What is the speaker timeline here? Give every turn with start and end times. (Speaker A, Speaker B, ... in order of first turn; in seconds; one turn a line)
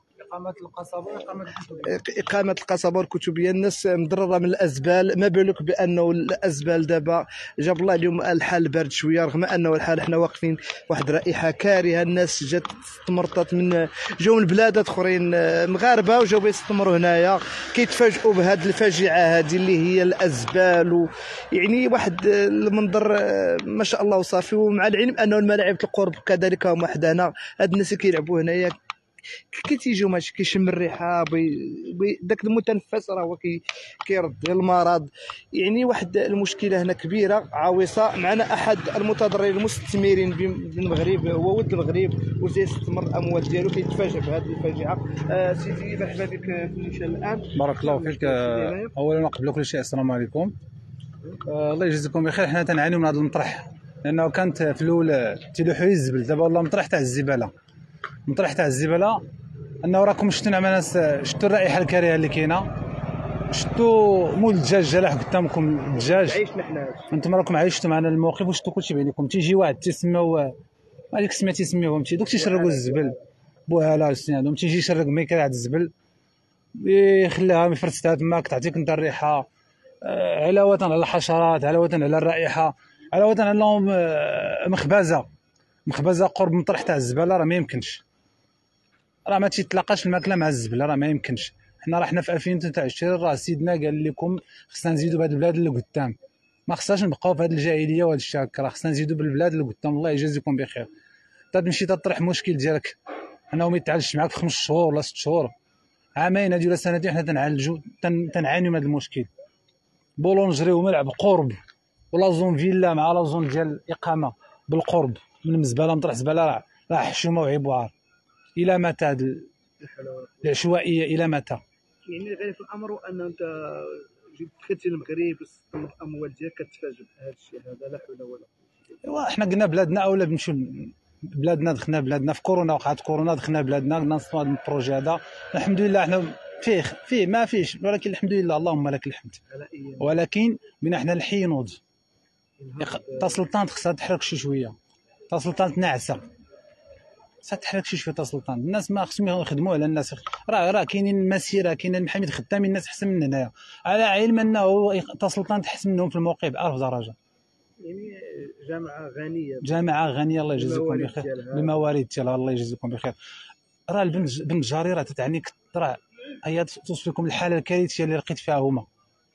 Speaker A: 0.2-1.9
Speaker B: 1.9-28.7
Speaker B: 29.5-48.9
Speaker A: 47.5-50.5
Speaker A: 51.5-57.5
Speaker A: 58.3-59.2
Speaker A: 59.8-62.7
Speaker A: 63.5-66.4
Speaker B: 65.9-67.1
Speaker A: 67.1-70.5
Speaker A: 71.1-73.1
Speaker B: 72.3-73.1
Speaker A: 73.7-75.9
Speaker A: 76.8-79.5
Speaker A: 80.0-85.3
Speaker A: 85.8-88.0
Speaker A: 89.2-96.2
Speaker A: 96.7-100.9
Speaker A: 101.5-103.0
Speaker A: 103.5-105.5
Speaker A: 106.2-109.3
Speaker A: 110.2-111.6
Speaker A: 112.1-117.9
Speaker A: 118.5-119.5
Speaker B: 119.8-120.7
Speaker A: 120.4-121.6
Speaker B: 122.1-128.7
Speaker A: 129.0-139.4
Speaker B: 139.5-140.2
Speaker A: 140.0-141.8
Speaker B: 142.6-143.4
Speaker A: 142.8-144.8
Speaker A: 145.3-146.2
Speaker A: 147.4-157.1
Speaker B: 157.8-159.7
Speaker A: 159.6-163.2
Speaker B: 160.5-161.8
Speaker A: 163.9-168.8